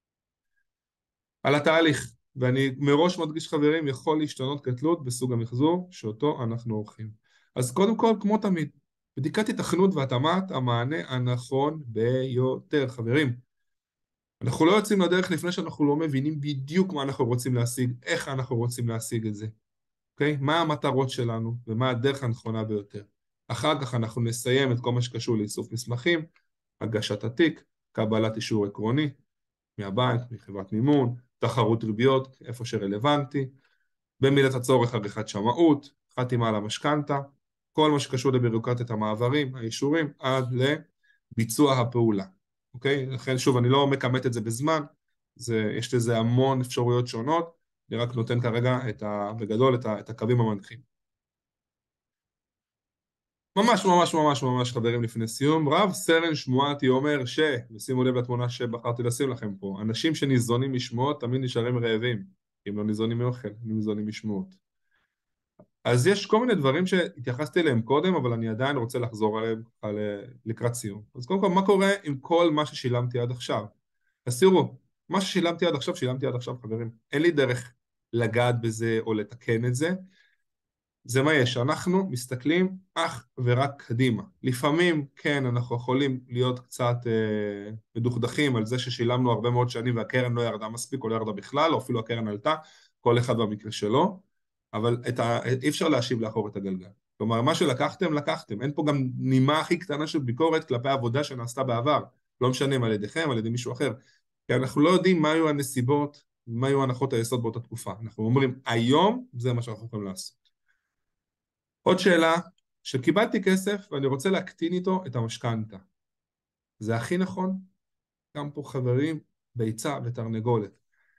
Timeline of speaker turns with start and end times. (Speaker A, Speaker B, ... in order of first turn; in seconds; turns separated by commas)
Speaker A: 1.4-13.4, Speaker A: 14.4-19.5, Speaker A: 20.2-26.3, Speaker A: 26.8-29.1, Speaker A: 29.8-33.5, Speaker A: 34.2-40.8, Speaker A: 41.4-50.9, Speaker A: 53.5-64.6, Speaker A: 65.8-73.7, Speaker A: 74.2-80.0, Speaker A: 81.0-104.0, Speaker A: 104.5-110.5, Speaker A: 111.8-115.8, Speaker A: 116.8-117.7, Speaker A: 118.3-120.8